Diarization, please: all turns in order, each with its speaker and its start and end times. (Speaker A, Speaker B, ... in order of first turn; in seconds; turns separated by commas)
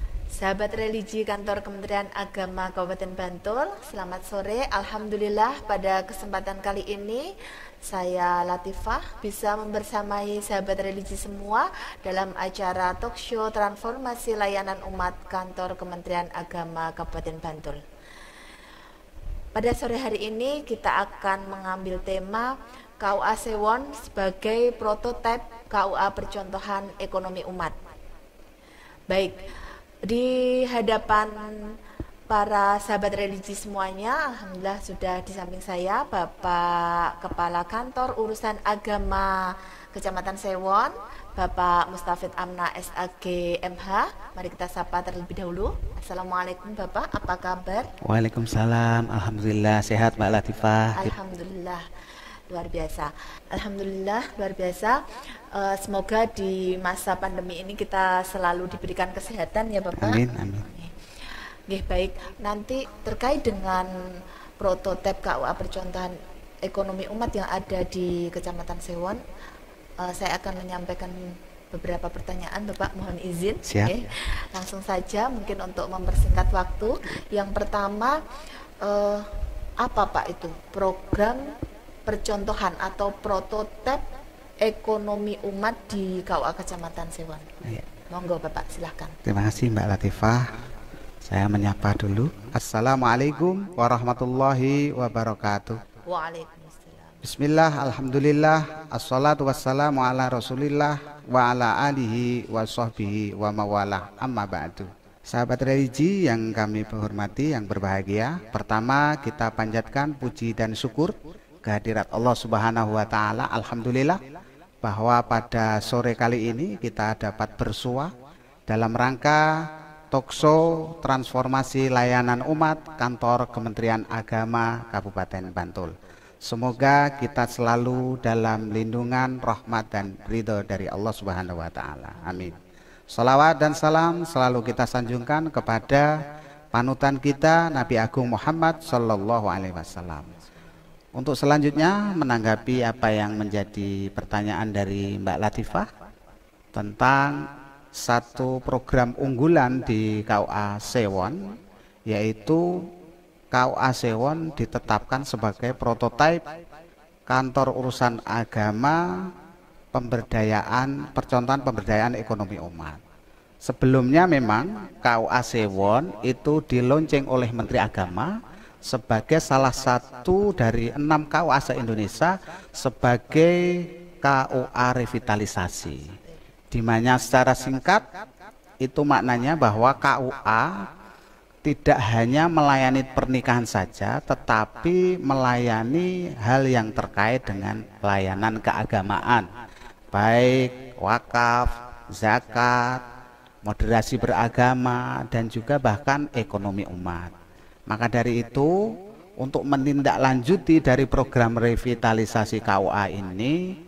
Speaker A: 0.3-17.8, Speaker A: 19.5-27.8, Speaker A: 29.1-29.4, Speaker A: 30.0-31.8, Speaker A: 32.3-47.9, Speaker B: 48.0-51.1, Speaker A: 51.0-51.8, Speaker A: 52.5-61.0, Speaker B: 60.0-60.7, Speaker A: 61.7-63.9, Speaker A: 64.6-69.2, Speaker A: 70.0-78.2, Speaker B: 73.7-74.0, Speaker A: 78.8-81.5, Speaker A: 82.0-84.0, Speaker A: 84.6-87.5, Speaker A: 88.1-89.2, Speaker B: 89.2-90.5, Speaker B: 91.2-95.8, Speaker A: 96.0-97.2, Speaker B: 97.2-114.2, Speaker B: 114.8-118.1, Speaker B: 118.7-132.6, Speaker B: 133.1-136.1, Speaker B: 136.7-140.3, Speaker B: 141.2-145.9, Speaker B: 146.7-151.4, Speaker B: 152.1-152.8, Speaker B: 153.5-156.4, Speaker B: 157.3-159.3, Speaker B: 159.9-163.0, Speaker B: 163.6-176.1, Speaker B: 176.7-178.0, Speaker B: 178.8-180.8, Speaker B: 181.6-189.5, Speaker B: 190.1-193.0, Speaker B: 193.7-197.3, Speaker B: 197.9-198.7, Speaker B: 199.4-203.6